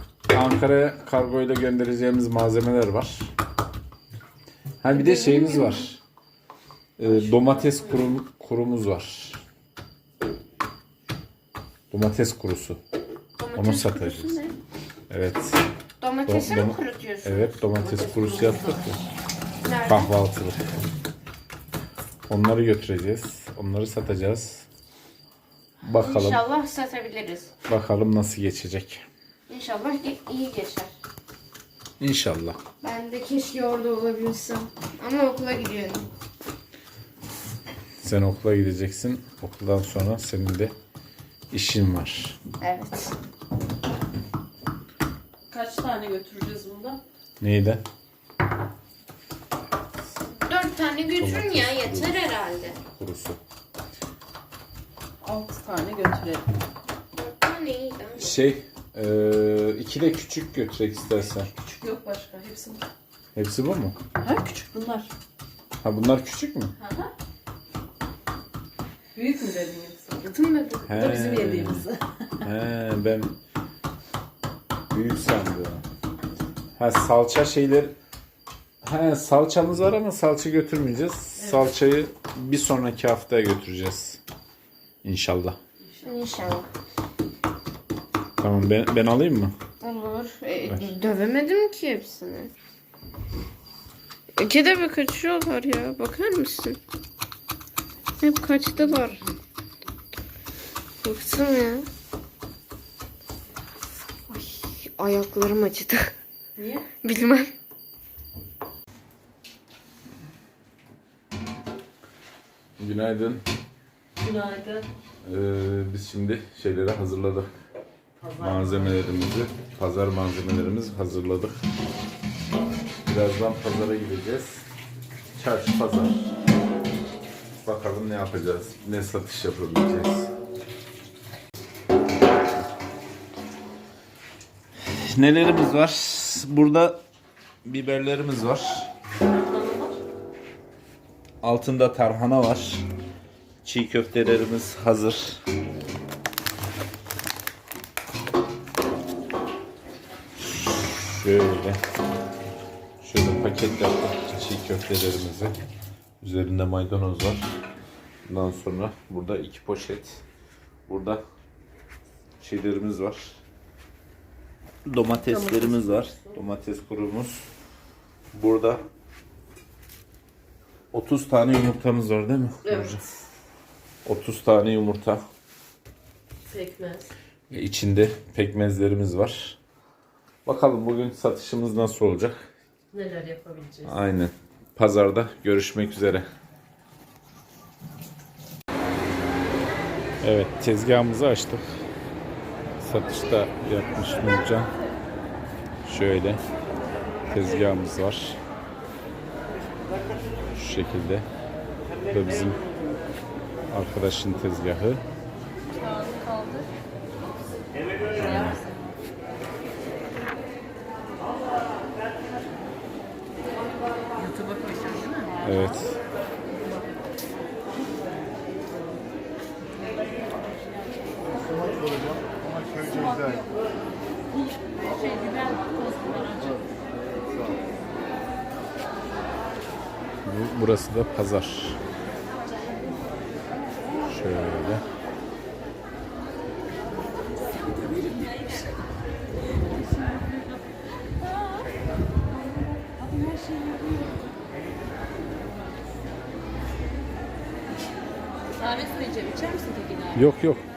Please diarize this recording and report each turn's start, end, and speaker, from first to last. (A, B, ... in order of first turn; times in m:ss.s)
0:00.3-0:03.3 A
0:04.8-0:06.0 A
0:04.9-0:05.9 B
0:07.0-0:09.4 A
0:07.0-0:08.1 C
0:11.9-0:12.8 A
0:13.4-0:14.6 B
0:13.6-0:14.4 A
0:15.1-0:15.6 A
0:16.0-0:17.7 B
0:16.3-0:19.0 A
0:17.8-0:19.1 C
0:19.6-0:20.2 B
0:19.9-0:20.6 A
0:22.3-0:24.7 A
0:25.8-0:26.4 A
0:26.0-0:27.5 B
0:27.7-0:29.1 A
0:29.5-0:30.9 B
0:32.0-0:32.6 A
0:32.8-0:36.1 B
0:38.0-0:40.7 A
0:41.5-0:42.4 A
0:42.6-0:43.2 B
0:45.5-0:47.0 C
0:47.4-0:47.8 A
0:50.3-0:52.8 B
0:51.2-0:53.4 A
0:55.2-0:56.5 C
0:57.2-0:58.3 B
0:58.2-1:01.5 A
1:01.5-1:02.9 C
1:03.4-1:04.0 A
1:04.2-1:05.1 C
1:05.8-1:06.8 A
1:06.8-1:07.1 C
1:09.2-1:10.4 C
1:10.2-1:11.0 B
1:10.9-1:11.9 A
1:10.9-1:12.5 C
1:12.4-1:13.4 A
1:14.9-1:15.8 A
1:16.8-1:17.9 A
1:18.8-1:24.2 A
1:21.4-1:21.7 C
1:25.0-1:25.6 A
1:25.8-1:26.1 C
1:26.0-1:26.7 B
1:28.4-1:29.5 A
1:29.8-1:32.5 B
1:34.4-1:36.8 B
1:38.2-1:39.2 B
1:38.9-1:39.3 C
1:41.0-1:41.9 B
1:44.3-1:46.1 B
1:46.6-1:46.9 C
1:47.0-1:47.5 B
1:52.8-1:53.4 A
1:54.2-1:54.9 C
1:55.2-1:57.5 A
1:58.2-1:59.2 C
1:58.4-2:01.6 A
2:03.0-2:04.6 A
2:05.4-2:06.3 A
2:07.6-2:10.3 A
2:14.8-2:17.0 A
2:17.6-2:18.9 A
2:19.2-2:20.0 C
2:21.4-2:22.8 A
2:23.6-2:25.4 A
2:30.4-2:31.8 A
2:33.0-2:35.5 A
2:36.2-2:37.5 A
2:38.3-2:40.2 A
2:40.9-2:41.2 A
2:42.4-2:43.4 A
2:44.8-2:47.5 A
2:45.1-2:46.4 C
2:48.3-2:48.8 A
2:50.9-2:53.0 A
2:52.6-2:53.1 C
2:54.0-2:55.3 A
2:56.5-2:57.1 C
2:57.5-2:59.6 A
3:00.5-3:02.5 A
3:02.9-3:04.0 C
3:03.8-3:06.3 A
3:10.2-3:11.8 A
3:12.8-3:14.7 A
3:15.8-3:16.4 A
3:17.3-3:18.4 A
3:20.6-3:21.2 A
3:22.1-3:22.6 A
3:23.7-3:25.0 A
3:25.8-3:26.7 C
3:28.1-3:28.7 A
3:34.2-3:35.3 C
3:35.4-3:36.0 A
3:42.7-3:43.5 C
3:44.7-3:46.6 C
3:50.2-3:51.8 A
3:54.1-3:54.8 A
4:08.6-4:10.2 C
4:10.1-4:10.7 A